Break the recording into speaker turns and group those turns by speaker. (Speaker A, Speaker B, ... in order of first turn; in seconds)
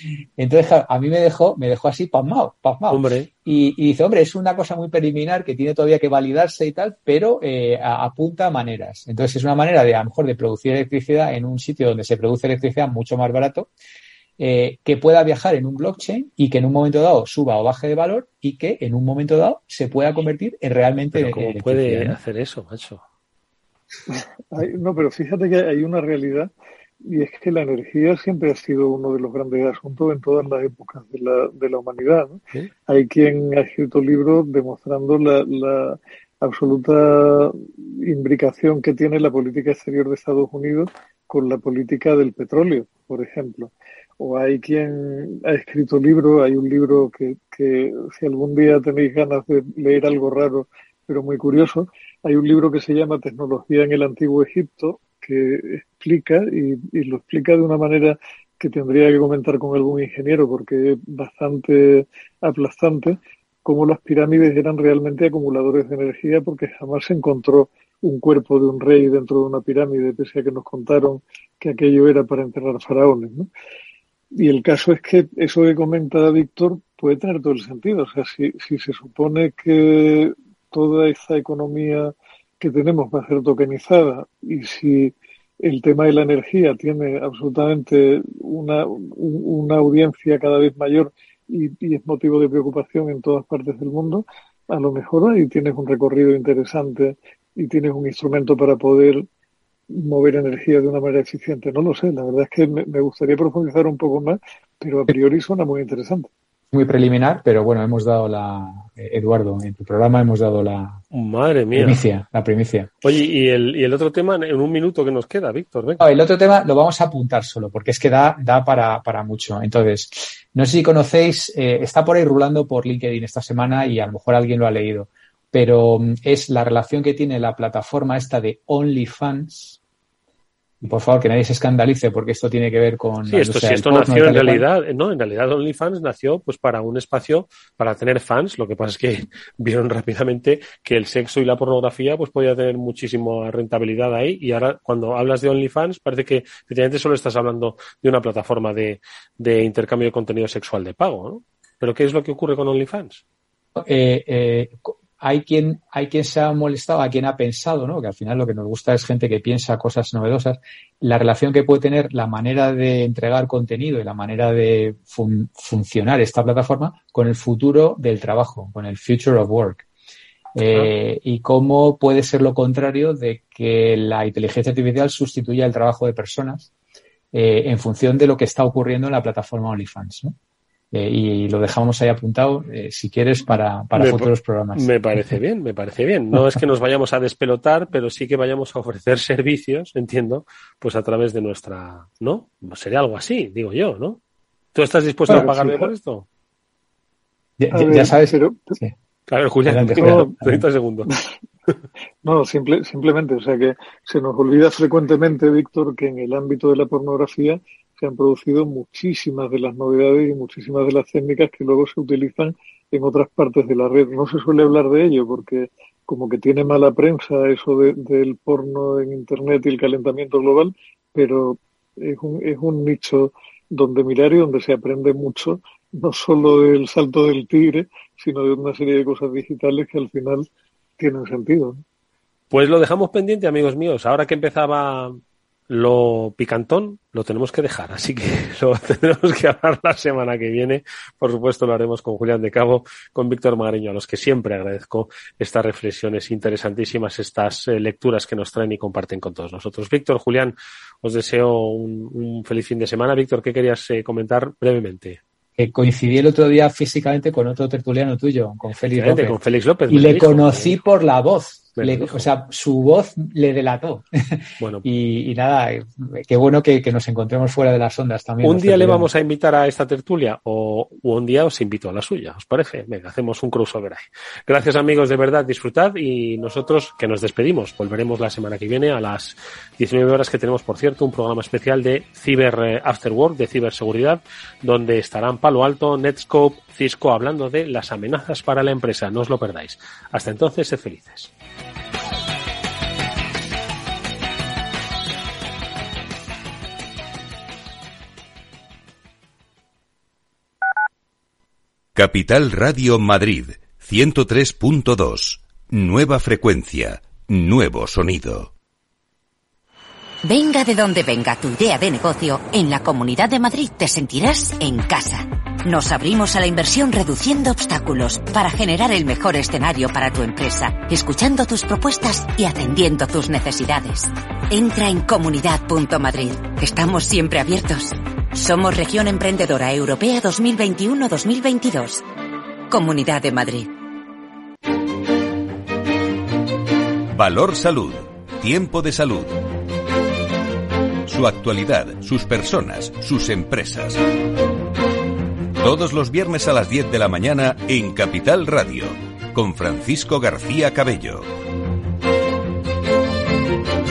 Speaker A: 0.4-13.7, 14.4-22.2, 106.7-111.0, 111.7-112.9, 116.0-129.8, 130.8-134.7, 153.8-169.8, 170.6-176.7, 177.3-180.3, 180.9-185.4, 186.3-186.6, 195.3-195.7, 197.6-198.9, 199.6-200.7, 255.6-259.4, 259.9-264.1, 264.8-269.1
Speaker B: 2.9-3.3, 21.1-23.0, 111.1-112.1, 113.0-116.1, 133.3-153.2, 183.9-194.2, 194.8-196.2, 199.3-201.1, 232.5-235.2, 235.7-255.2, 258.9-260.8, 261.8-262.3, 264.6-264.9, 268.4-291.3
Speaker C: 24.1-26.5, 27.0-73.5, 74.4-99.3, 99.9-106.3, 195.3-195.9, 197.7-198.8, 200.0-200.3, 202.2-230.5, 231.0-231.8
Speaker D: 301.9-308.5, 337.1-339.4, 341.1-344.0, 345.6-351.3
Speaker E: 310.2-332.0, 332.7-333.7